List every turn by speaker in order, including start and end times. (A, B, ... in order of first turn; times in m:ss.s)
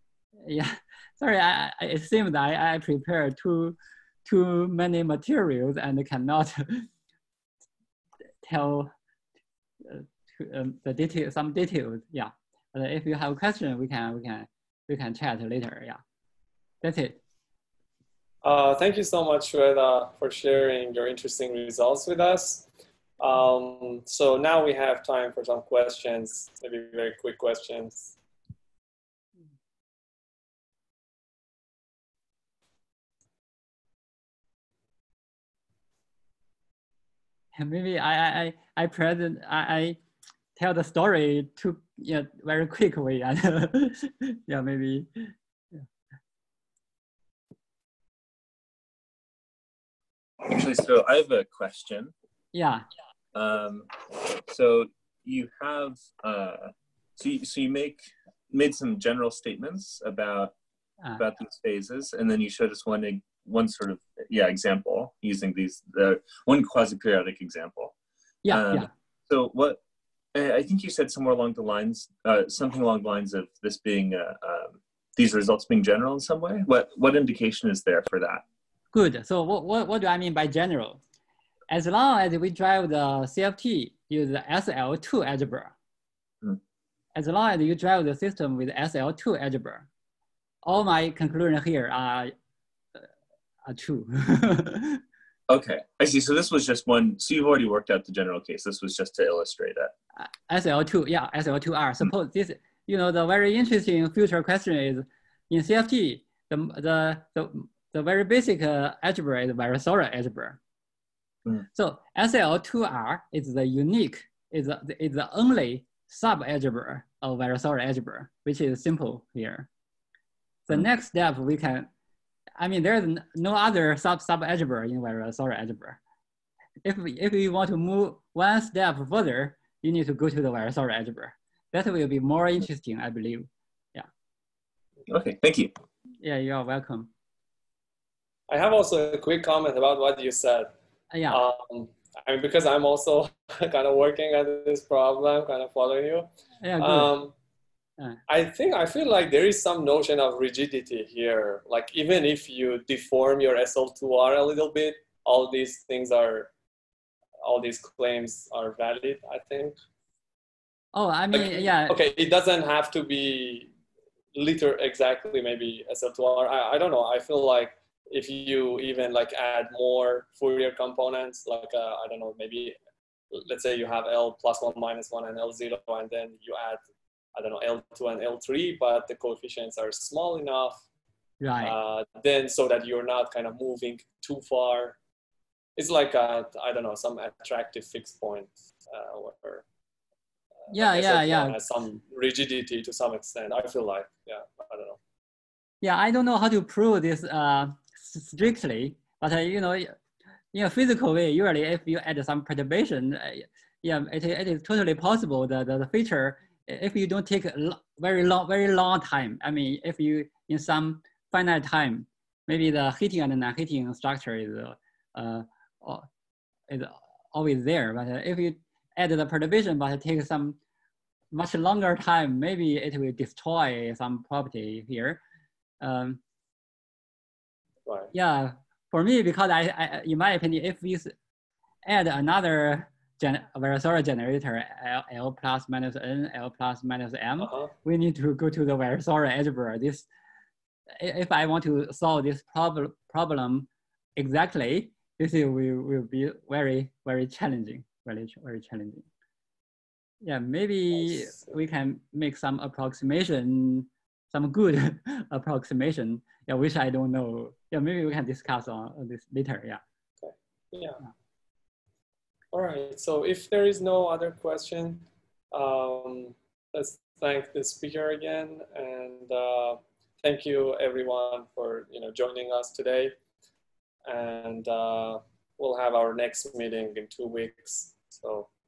0:00.4-0:06.9 A
0:08.4-0:08.9 A
0:09.8-0:16.0 A
0:16.8-0:17.2 A
0:18.4-0:22.7 B
0:23.2-0:28.2 B
0:37.5-0:40.0 A
0:40.6-0:45.3 A
0:50.4-0:52.1 C
0:52.5-0:52.8 A
0:53.3-1:00.5 C
1:01.2-1:07.9 C
1:08.4-1:08.9 A
1:08.5-1:09.8 C
1:10.3-1:18.4 C
1:18.9-1:21.0 A
1:21.7-1:25.7 A
1:27.1-1:29.9 A
1:30.6-1:32.3 A
1:33.7-1:35.0 A
1:35.5-1:39.9 C
1:40.2-1:50.6 A
1:51.7-1:59.7 A
2:00.7-2:01.9 A
2:02.6-2:06.0 A
2:06.8-2:14.1 A
2:15.1-2:15.7 C
2:16.2-2:17.1 A
2:18.5-2:20.7 B
2:21.1-2:21.4 A
2:21.3-2:26.3 B
2:26.6-2:27.1 A
2:26.8-2:27.3 B
2:28.3-2:36.5 B
2:37.4-2:39.8 B
2:40.9-2:42.0 A
2:41.3-2:43.7 B
2:44.3-2:52.8 B
2:53.3-2:56.8 B
2:57.3-3:00.8 B
3:01.4-3:01.7 A
3:01.6-3:05.0 B
3:05.8-3:09.6 B
3:10.6-3:15.0 B
3:10.7-3:11.9 A
3:15.8-3:19.9 A
3:20.5-3:36.1 A
3:36.7-3:40.6 A
3:41.3-3:45.2 A
3:45.8-3:46.2 A
3:47.8-3:48.1 B
3:48.1-3:51.1 A
3:51.8-4:00.1 A
3:57.4-3:57.7 B
4:01.0-4:09.0 A
4:10.2-4:19.8 A
4:20.2-4:21.0 B
4:22.5-4:33.2 B
4:34.0-4:38.5 B